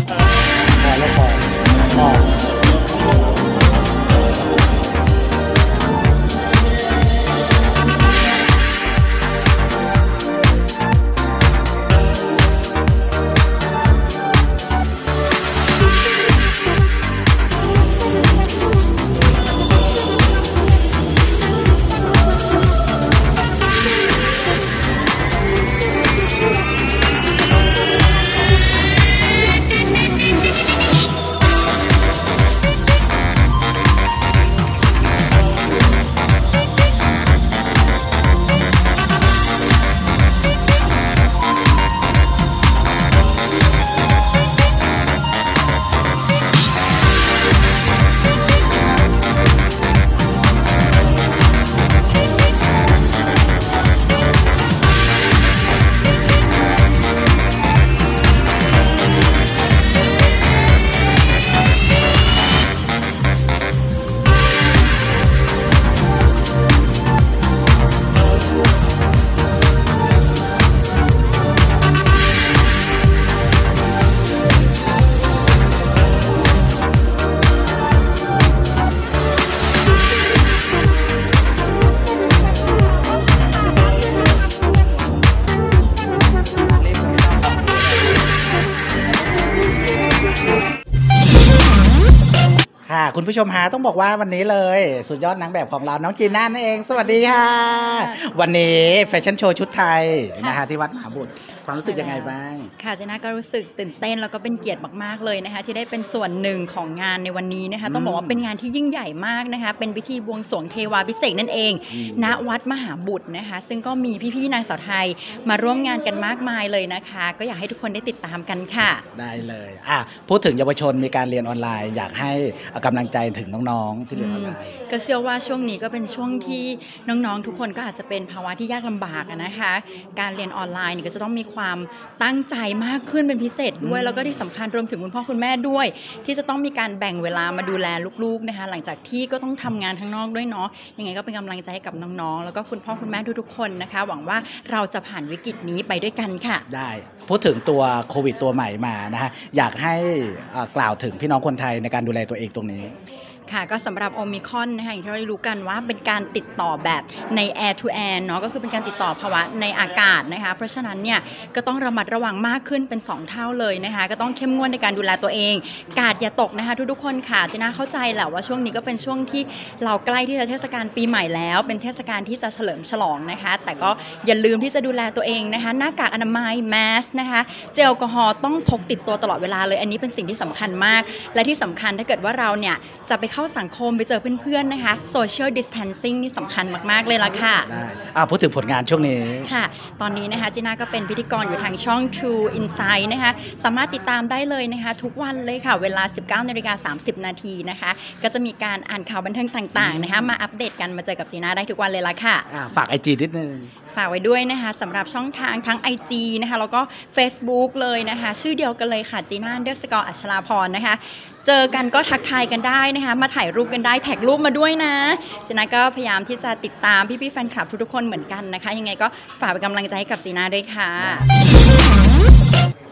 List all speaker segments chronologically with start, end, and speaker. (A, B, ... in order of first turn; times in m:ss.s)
0:00.8-0:02.4 A
1:32.9-1:42.7 A
1:37.8-1:38.2 B
1:41.7-1:59.0 B
1:47.8-1:48.4 A
1:51.9-1:52.4 A
1:59.1-2:04.7 A
2:04.1-2:26.6 B
2:13.8-2:14.2 A
2:26.7-2:32.9 A
2:33.5-3:07.7 B
3:07.7-3:09.5 A
3:09.4-3:22.5 B
3:19.7-3:20.4 A
3:22.5-3:23.7 A
3:23.9-3:41.3 B